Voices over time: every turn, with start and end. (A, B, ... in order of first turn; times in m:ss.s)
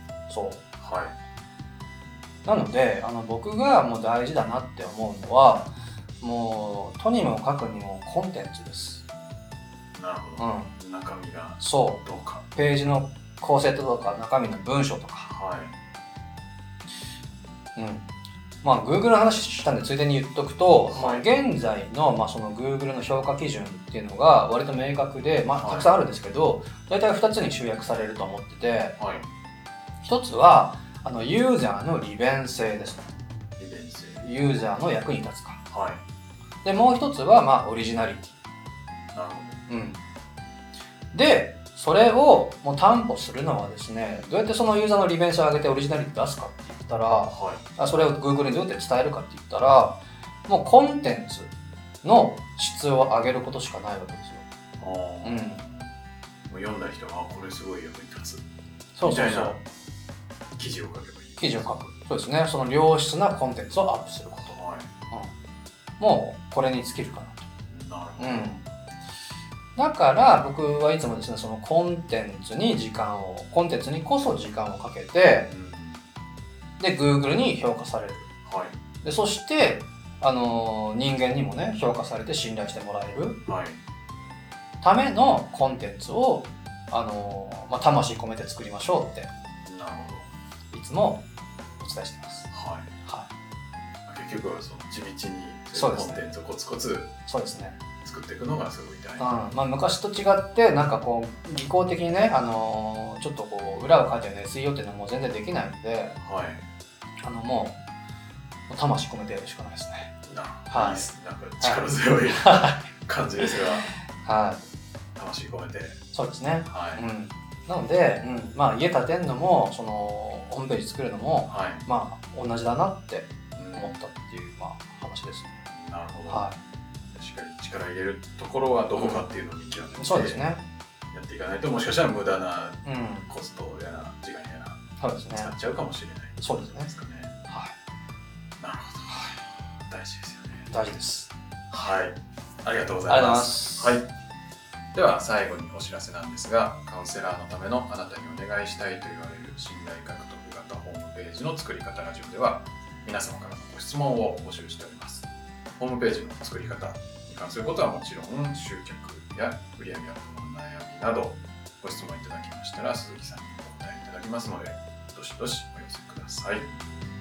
0:00.3-0:00.6 A
0:00.8-0:01.2 B
0:02.4-0:09.0 A
0:09.9-0:12.4 B
0:10.4-0:10.7 A
0:11.6-0:12.0 A
0:12.5-0:15.3 A
0:15.3-0:15.7 B
0:17.8-0:18.1 A
0:18.6-0:29.0 A
0:20.9-0:21.3 B
0:25.6-0:25.9 B
0:29.0-0:29.3 B
0:30.0-0:33.2 A
0:33.6-0:34.3 B
0:34.2-0:35.6 A
0:35.7-0:36.0 B
0:36.6-0:38.4 A
0:39.1-0:39.6 B
0:39.7-0:40.0 A
0:41.1-0:51.5 A
0:47.3-0:47.7 B
0:52.0-0:54.4 A
0:54.8-0:55.9 B
0:55.2-0:55.6 A
0:56.4-0:58.4 B
0:59.0-0:59.6 A
0:59.0-0:59.6 B
1:00.6-1:01.7 B
1:01.4-1:05.3 A
1:04.4-1:04.9 B
1:06.0-1:07.5 A
1:07.7-1:08.6 B
1:08.2-1:08.6 A
1:09.8-1:15.5 A
1:15.5-1:16.1 B
1:16.8-1:18.3 A
1:18.4-1:18.8 B
1:19.0-1:23.4 A
1:23.5-1:23.8 B
1:24.8-1:29.3 A
1:29.7-1:30.3 B
1:30.7-1:31.2 A
1:31.8-1:32.5 A
1:32.5-1:32.9 B
1:34.1-1:37.1 B
1:35.8-1:36.2 A
1:37.3-1:37.8 A
1:38.0-1:39.3 B
1:39.2-1:46.2 A
1:46.2-1:46.6 B
1:47.2-1:47.8 A
1:48.7-1:50.2 A
1:50.3-1:53.9 B
1:50.7-1:51.1 A
1:51.6-1:52.8 A
1:54.2-1:54.6 A
1:55.2-1:56.0 B
1:56.1-2:05.6 A
1:56.7-1:57.0 B
2:01.5-2:01.9 B
2:03.6-2:04.0 B
2:05.7-2:06.5 B
2:06.3-2:06.6 A
2:07.1-2:10.4 B
2:09.0-2:09.3 A
2:09.9-2:10.6 A
2:11.1-2:17.4 B
2:12.8-2:13.3 A
2:15.0-2:15.5 A
2:16.4-2:16.9 A
2:17.5-2:17.8 A
2:18.6-2:20.8 B
2:20.7-2:21.3 A
2:21.7-2:24.1 B
2:23.1-2:24.0 A
2:24.9-2:35.3 B
2:35.8-2:46.7 B